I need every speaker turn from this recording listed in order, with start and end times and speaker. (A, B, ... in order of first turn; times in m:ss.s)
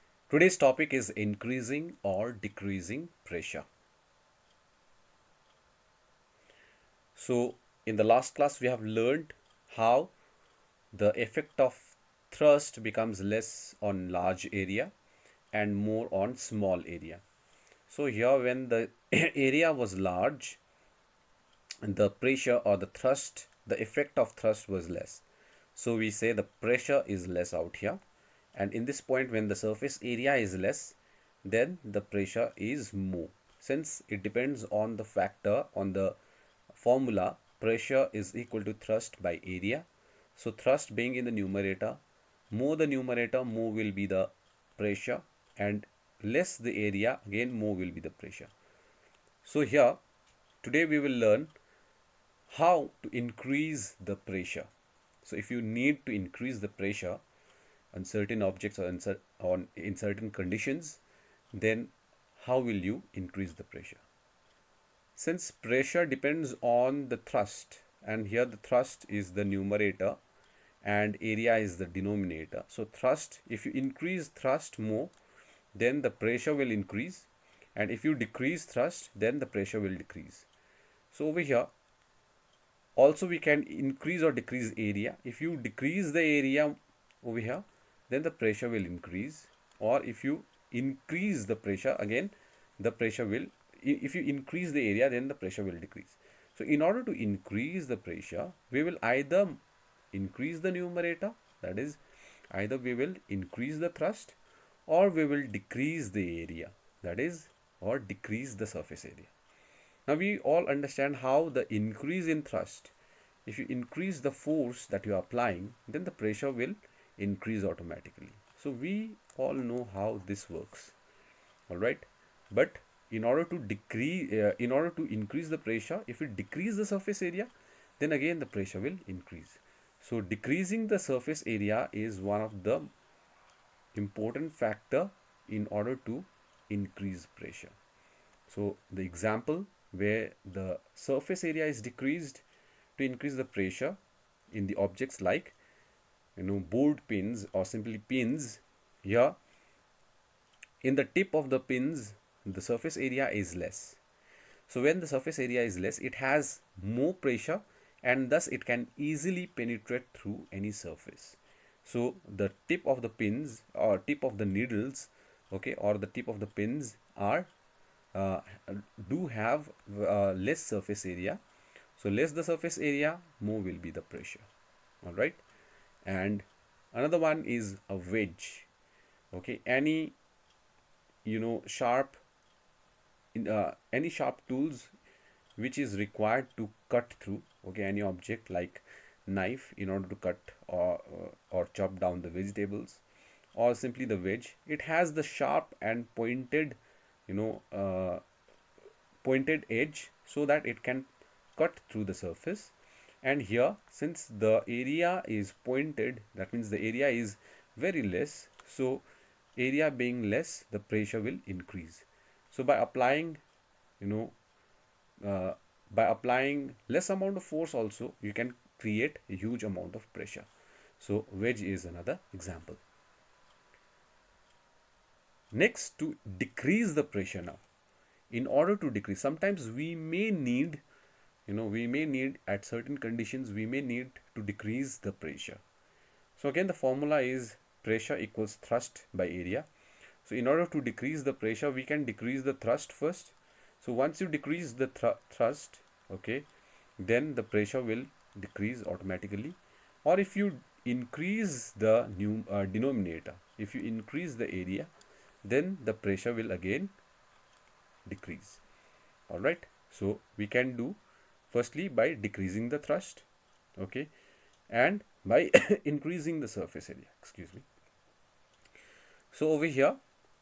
0:00.3-0:03.6 A
0:07.1-0:10.1 A
0:10.9-0:14.9 A
0:15.5-0:17.2 A
0:17.9-0:20.6 A
0:21.8-0:25.2 A
0:25.7-0:28.0 A
0:28.5-0:36.2 A
0:36.7-0:42.0 A
0:42.5-0:48.5 A
0:49.4-0:50.0 A
0:50.6-0:51.5 A
0:52.5-0:54.7 A
0:55.2-0:57.2 A
0:57.9-1:01.0 A
1:01.5-1:04.0 A
1:05.2-1:10.2 A
1:10.8-1:15.1 A
1:15.7-1:20.5 A
1:21.1-1:21.7 A
1:23.0-1:39.6 A
1:40.1-1:42.0 A
1:42.5-1:44.4 A
1:44.9-1:49.3 A
1:50.1-1:52.9 A
1:53.4-2:00.9 A
2:01.7-2:12.9 A
2:13.9-2:17.7 A
2:18.5-2:22.4 A
2:23.0-2:24.0 A
2:24.5-2:25.5 A
2:26.4-2:29.3 A
2:30.8-2:34.0 A
2:34.7-2:47.5 A
2:48.1-2:51.4 A
2:52.0-2:54.4 A
2:55.0-2:55.4 A
2:56.0-2:58.7 A
2:59.3-3:00.2 A
3:01.2-3:02.2 A
3:03.3-3:04.9 A
3:05.6-3:13.0 A
3:13.5-3:18.2 A
3:19.2-3:29.0 A
3:29.6-3:33.4 A
3:34.0-3:34.3 A
3:35.2-3:40.5 A
3:41.0-3:42.8 A
3:45.5-3:47.6 A
3:48.3-3:50.8 A
3:51.4-3:55.6 A
3:56.4-3:59.7 A
4:00.2-4:06.5 A
4:07.0-4:14.9 A
4:15.4-4:16.9 A
4:18.0-4:18.6 A
4:19.3-4:21.0 A
4:21.5-4:23.2 A
4:23.8-4:24.1 A
4:24.7-4:27.6 A
4:29.3-4:30.0 A